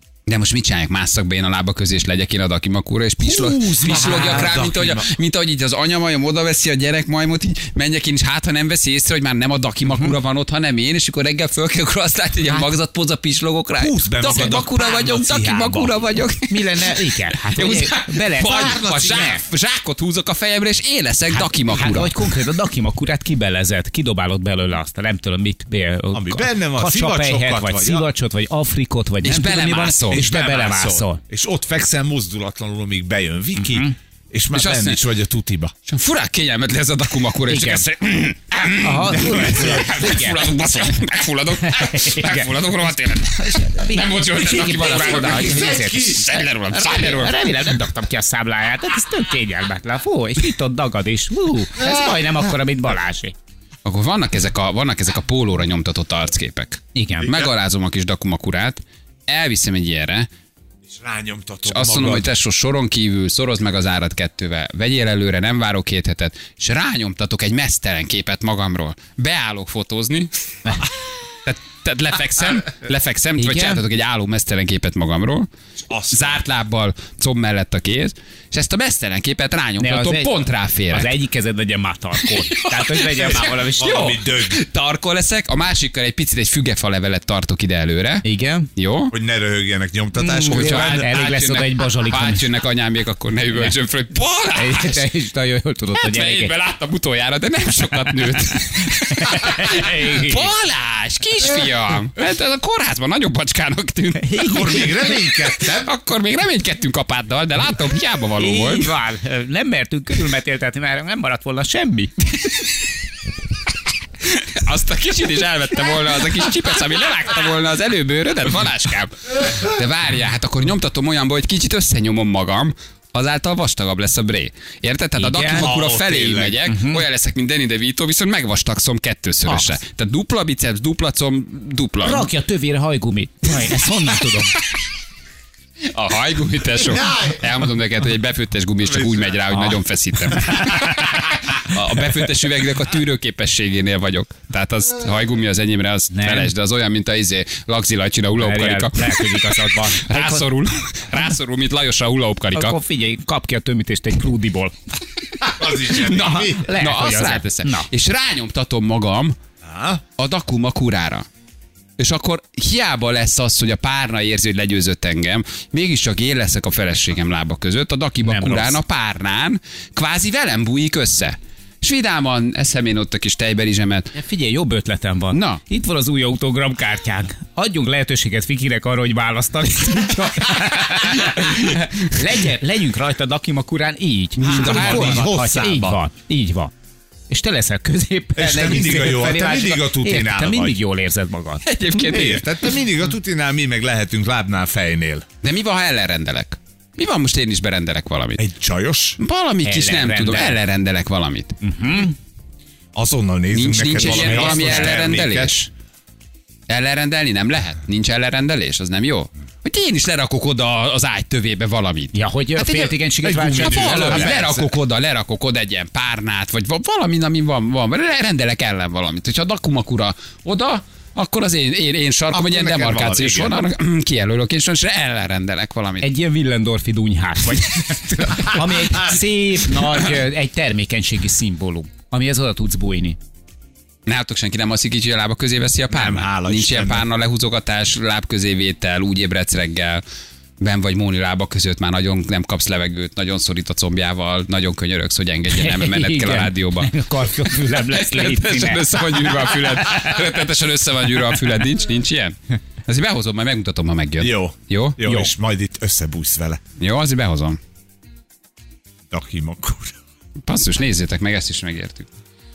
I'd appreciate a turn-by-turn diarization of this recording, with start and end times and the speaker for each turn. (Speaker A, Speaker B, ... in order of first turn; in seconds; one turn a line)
Speaker A: 0.3-16.6
Speaker B: 3.2-5.1
Speaker C: 9.8-10.1
Speaker B: 13.8-16.0
Speaker C: 16.4-19.4
Speaker A: 17.5-22.3
Speaker B: 18.4-19.4
Speaker C: 21.3-31.2
Speaker B: 26.1-28.1
Speaker A: 29.2-30.2
Speaker B: 30.1-35.7
Speaker C: 33.6-33.9
Speaker A: 34.5-35.0
Speaker A: 35.9-47.5
Speaker C: 37.5-37.8
Speaker C: 38.8-40.5
Speaker C: 41.6-53.3
Speaker B: 45.4-45.9
Speaker A: 53.8-60.3
Speaker C: 56.9-57.3
Speaker B: 57.2-57.5
Speaker B: 60.9-62.3
Speaker A: 61.6-70.9
Speaker A: 71.4-75.5
Speaker C: 73.4-73.8
Speaker B: 75.9-76.4
Speaker A: 76.1-81.1
Speaker C: 79.8-84.1
Speaker A: 82.2-89.1
Speaker B: 83.2-84.6
Speaker C: 88.2-88.7
Speaker B: 89.1-91.1
Speaker C: 90.2-92.5
Speaker A: 90.4-95.1
Speaker C: 94.5-96.5
Speaker A: 96.0-108.9
Speaker C: 98.1-100.5
Speaker C: 104.2-105.2
Speaker B: 104.4-105.9
Speaker C: 108.4-112.2
Speaker A: 114.2-132.3
Speaker C: 125.2-125.7
Speaker B: 125.5-126.6
Speaker C: 126.7-127.0
Speaker C: 129.4-129.8
Speaker C: 132.0-134.6
Speaker A: 135.9-152.8
Speaker B: 138.8-139.3
Speaker C: 139.5-139.8
Speaker C: 146.1-146.5
Speaker C: 148.4-150.5
Speaker C: 152.5-154.7
Speaker B: 155.4-156.7
Speaker A: 155.6-159.3
Speaker C: 156.0-157.9
Speaker B: 159.6-160.0
Speaker A: 160.2-161.2
Speaker A: 162.0-174.1
Speaker C: 168.2-168.8
Speaker C: 174.1-186.7
Speaker A: 175.3-175.6
Speaker A: 181.2-181.7
Speaker B: 184.4-186.0
Speaker A: 184.4-185.7
Speaker C: 187.3-191.7
Speaker B: 188.3-190.8
Speaker A: 191.6-192.7
Speaker B: 191.9-195.2
Speaker A: 195.4-198.4
Speaker B: 198.4-199.2
Speaker A: 199.2-201.5
Speaker C: 199.6-200.6
Speaker C: 201.6-202.2
Speaker B: 202.9-205.5
Speaker A: 203.5-205.7
Speaker C: 203.9-205.0
Speaker A: 206.7-226.1
Speaker C: 212.1-214.4
Speaker B: 213.2-214.8
Speaker B: 222.3-223.6
Speaker C: 226.0-233.2
Speaker B: 228.5-229.2
Speaker A: 234.1-240.0
Speaker B: 235.9-237.1
Speaker A: 240.6-246.9
Speaker C: 245.5-250.1
Speaker A: 247.4-255.0
Speaker B: 254.2-256.6
Speaker A: 256.8-257.6
Speaker B: 259.1-259.9
Speaker A: 260.5-262.1